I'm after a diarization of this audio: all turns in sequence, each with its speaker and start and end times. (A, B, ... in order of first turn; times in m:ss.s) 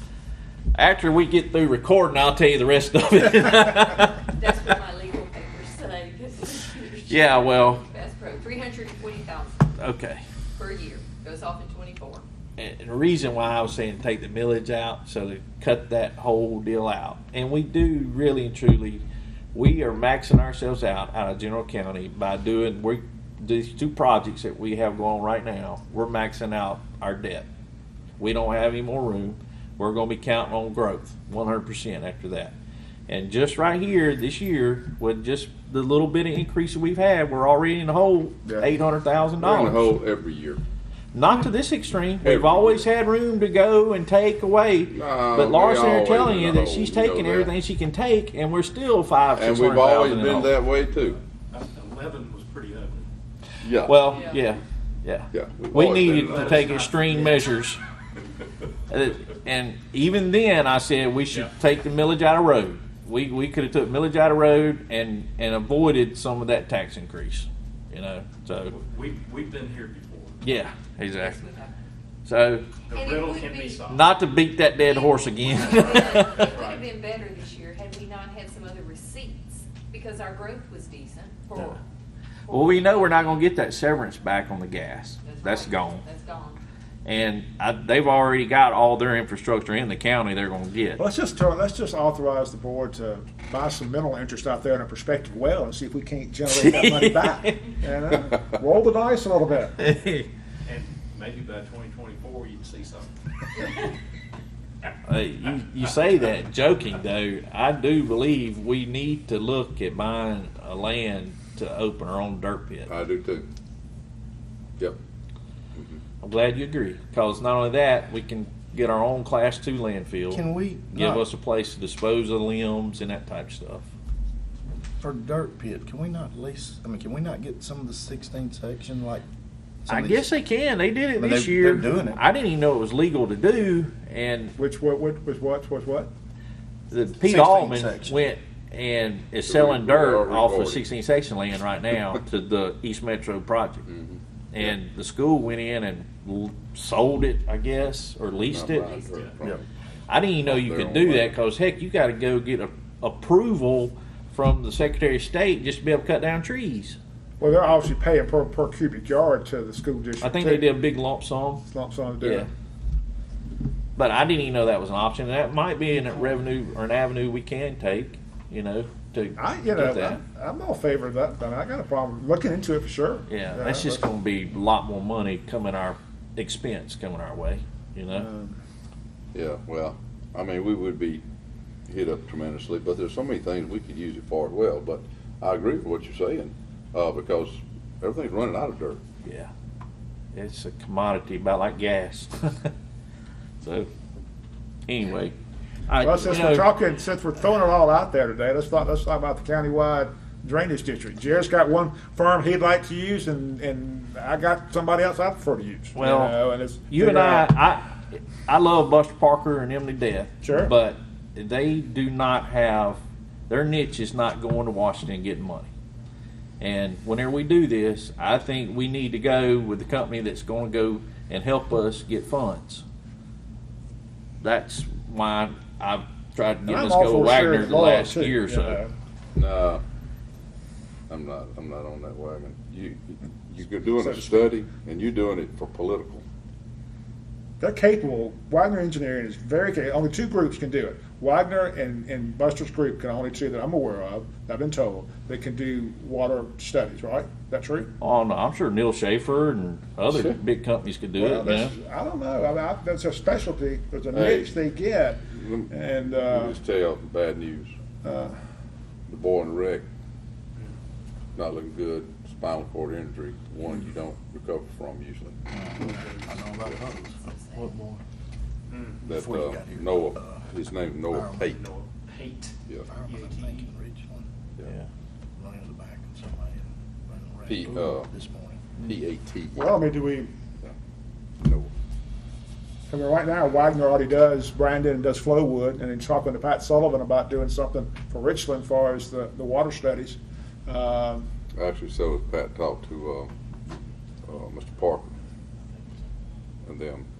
0:00.7-0:04.2 A
0:04.2-0:09.7 B
0:07.1-0:07.8 A
0:09.8-0:10.2 A
0:10.6-0:12.2 B
0:12.6-0:27.4 A
0:28.2-0:32.5 A
0:33.1-0:39.9 A
0:39.4-0:40.6 C
0:41.1-0:50.5 A
0:42.2-0:42.9 C
0:44.9-0:47.5 C
0:49.4-0:51.2 C
0:51.5-0:53.1 D
0:53.6-0:54.0 C
0:53.8-0:57.8 A
0:54.1-0:54.4 B
0:55.3-0:56.5 C
0:56.0-0:57.4 D
0:58.9-1:08.7 A
1:08.6-1:10.4 D
1:10.4-1:11.4 A
1:11.1-1:11.7 B
1:12.2-1:12.6 A
1:12.8-1:14.0 D
1:12.9-1:13.8 B
1:13.9-1:16.4 A
1:14.8-1:21.8 B
1:15.8-1:16.8 D
1:22.4-1:23.4 B
1:22.5-1:26.0 A
1:25.2-1:26.6 B
1:27.0-1:31.0 A
1:31.0-1:39.8 E
1:36.4-1:37.6 A
1:39.8-1:40.3 A
1:40.6-1:43.1 D
1:45.0-1:52.9 A
1:52.9-1:53.5 C
1:56.2-2:03.9 A
2:00.3-2:01.2 F
2:05.0-2:09.2 F
2:09.8-2:10.3 F
2:09.9-2:14.6 A
2:11.2-2:12.2 F
2:14.6-2:16.1 E
2:16.9-2:23.8 A
2:17.2-2:18.2 F
2:19.5-2:20.8 C
2:23.8-2:24.7 C
2:24.5-2:29.0 A
2:28.5-2:29.6 C
2:28.8-2:29.5 B
2:30.1-2:37.0 A
2:30.4-2:31.4 C
2:37.4-2:40.7 E
2:40.2-2:41.6 A
2:41.6-2:42.5 E
2:42.2-2:42.5 A
2:44.0-2:50.2 A
2:49.4-2:54.0 E
2:53.3-2:58.3 A
2:58.1-2:58.6 E
2:59.3-3:01.2 C
3:01.9-3:09.0 C
3:09.2-3:09.5 A
3:10.3-3:12.7 A
3:13.6-3:13.9 A
3:14.9-3:15.3 A
3:15.9-3:16.7 A
3:16.0-3:27.5 E
3:25.9-3:26.4 A
3:26.9-3:35.7 A
3:30.4-3:30.7 E
3:36.6-3:42.8 A
3:44.4-3:48.8 A
3:46.6-3:48.9 E
3:49.3-3:49.8 C
3:51.1-3:56.2 C
3:54.0-3:54.5 E
3:57.6-4:07.9 E
4:08.0-4:11.7 A
4:10.1-4:10.4 C
4:11.2-4:16.6 E
4:14.1-4:14.5 C
4:15.3-4:15.7 C
4:16.2-4:17.7 C
4:18.0-4:18.4 E
4:19.1-4:19.8 C
4:21.4-4:25.4 C
4:25.5-4:28.0 F
4:25.8-4:26.4 D
4:27.2-4:27.7 B
4:28.7-4:29.0 D
4:29.0-4:30.4 F
4:29.0-4:31.6 C
4:31.1-4:31.5 F
4:31.4-4:33.6 D
4:32.9-4:34.3 F
4:35.4-4:38.7 F
4:37.5-4:38.1 C
4:38.8-4:39.8 C
4:39.5-4:40.3 E
4:41.4-4:41.7 C
4:42.9-4:51.3 E
4:51.6-4:53.3 C
4:54.2-4:55.1 C
4:56.6-4:57.1 C